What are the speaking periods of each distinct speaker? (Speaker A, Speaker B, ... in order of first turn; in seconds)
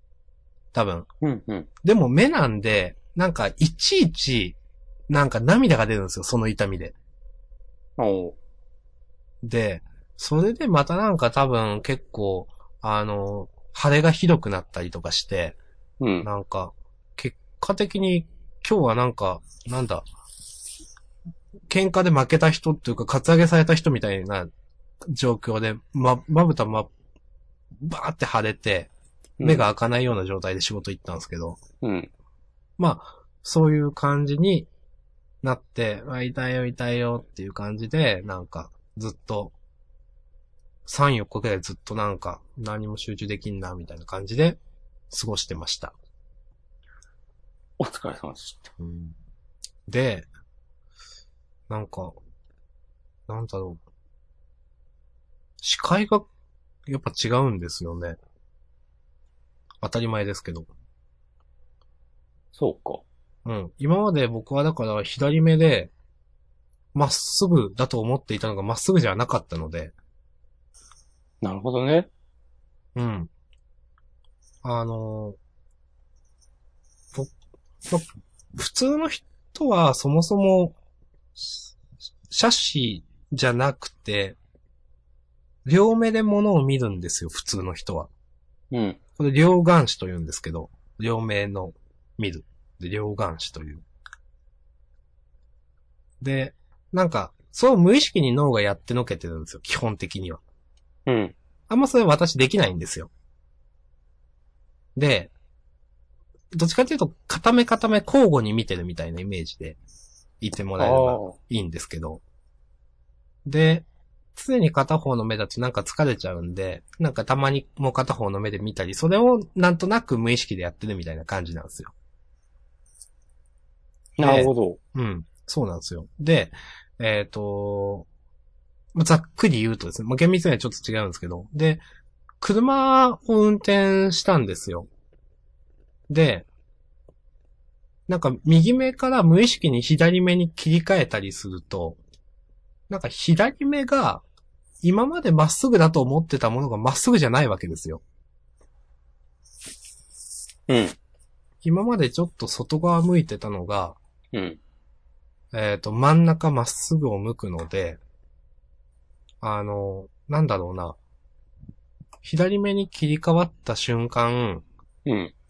Speaker A: 0.7-1.1, 1.8-4.6, 5.1-7.0, 9.4-15.6, 16.2-20.0, 21.7-24.5, 25.1-26.9, 27.8-28.9, 29.4-31.6, 32.8-34.7, 35.4-39.5, 40.9-44.6, 45.1-45.9, 48.8-49.1, 49.9-50.3, 51.7-52.1, 53.3-53.8, 55.6-56.3, 56.9-58.2, 59.8-60.7, 63.4-65.9, 66.9-69.9, 72.9-73.3, 74.6-75.4, 77.9-80.8, 81.3-81.7, 82.3-84.4, 85.6-88.1, 89.2-93.8, 96.2-100.4, 101.7-103.1, 105.0-105.3, 106.5-109.8, 110.4-112.2, 113.4-121.9, 124.2-128.1, 128.9-131.8, 132.4-134.9, 136.1-136.4, 138.1-142.0, 142.9-144.2, 144.8-148.0, 151.6-154.0, 155.5-158.0, 159.4-161.0, 162.2-164.6
Speaker B: 1.2-1.7, 8.0-8.4, 16.0-16.3, 29.4-29.7, 31.8-32.1, 47.8-48.7, 62.5-63.0, 71.4-72.1, 88.7-89.0, 101.1-101.3, 110.8-111.4, 124.2-124.8, 150.7-151.0, 154.3-154.6, 165.1-165.3